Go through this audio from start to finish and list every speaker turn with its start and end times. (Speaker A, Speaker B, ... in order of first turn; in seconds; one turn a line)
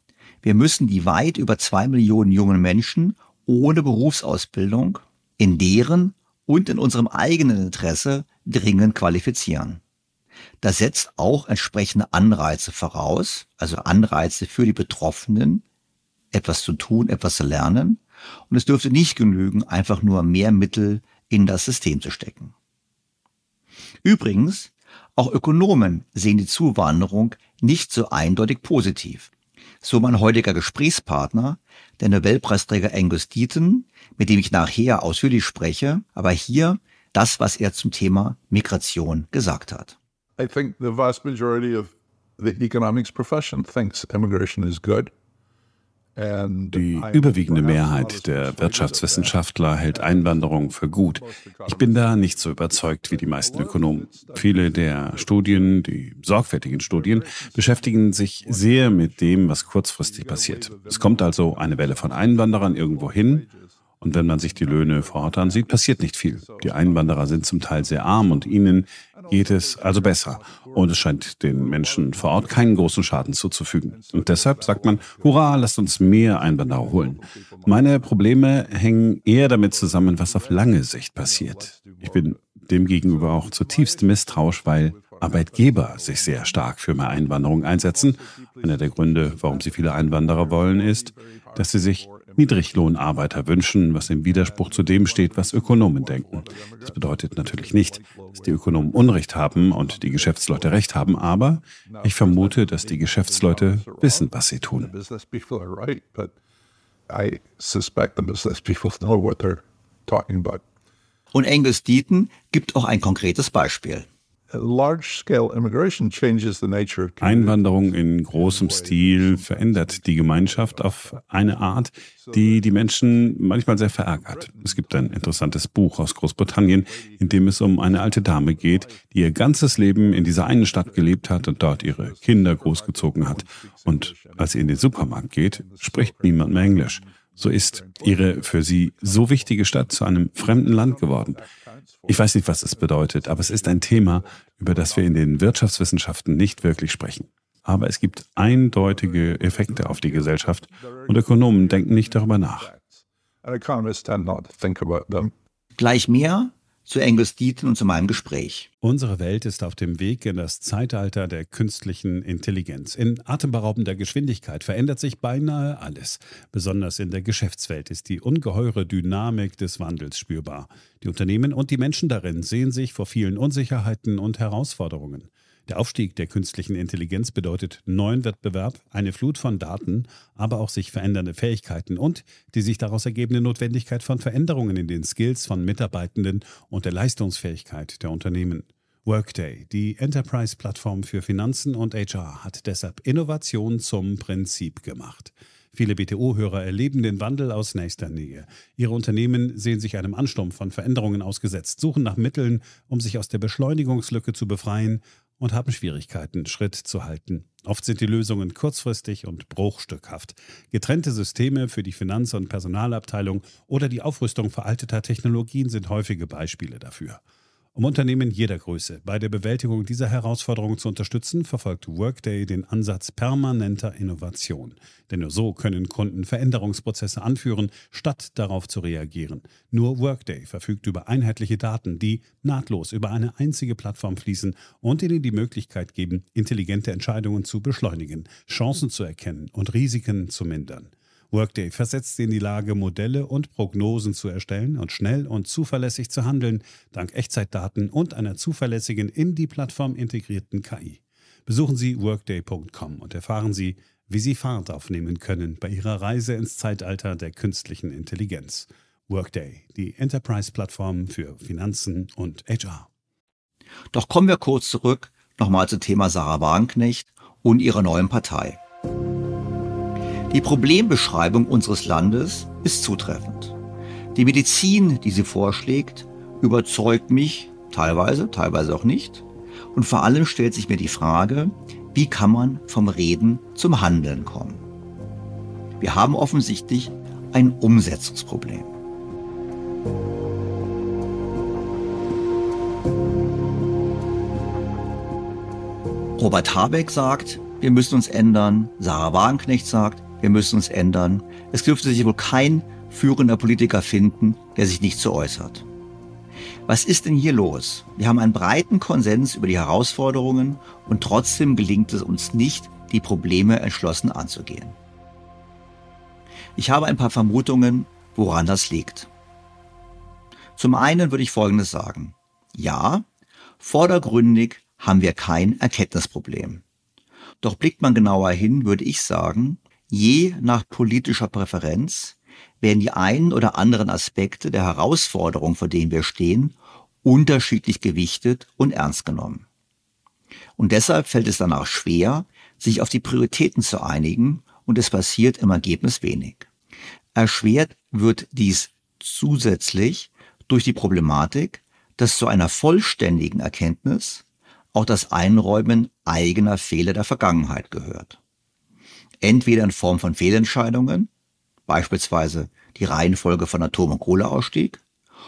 Speaker A: 0.4-9.8
Speaker A: 10.6-15.6
Speaker A: 16.3-22.5
Speaker A: 24.0-29.3
Speaker A: 29.8-39.9
Speaker B: 40.4-45.1
Speaker B: 46.1-55.8
Speaker C: 46.7-63.5
Speaker B: 56.6-73.2
Speaker C: 64.0-104.9
Speaker B: 73.9-93.4
Speaker B: 94.2-100.9
Speaker B: 101.9-106.3
Speaker B: 107.1-110.6
Speaker A: 111.3-114.1
Speaker B: 114.5-125.5
Speaker C: 117.2-141.4
Speaker B: 126.4-145.6
Speaker C: 142.1-152.7
Speaker B: 148.4-155.3
Speaker A: 155.8-158.7
Speaker C: 158.8-217.2
Speaker C: 217.7-262.9
Speaker A: 263.9-268.6
Speaker A: 270.3-273.6
Speaker A: 274.1-284.6
Speaker A: 285.8-288.7
Speaker A: 296.2-305.6
Speaker A: 306.7-314.8
Speaker A: 316.6-319.1
Speaker A: 320.6-323.1
Speaker A: 323.6-326.6
Speaker A: 327.4-339.4
Speaker A: 340.6-346.5
Speaker A: 347.1-358.2
Speaker A: 359.2-361.1
Speaker A: 361.7-364.8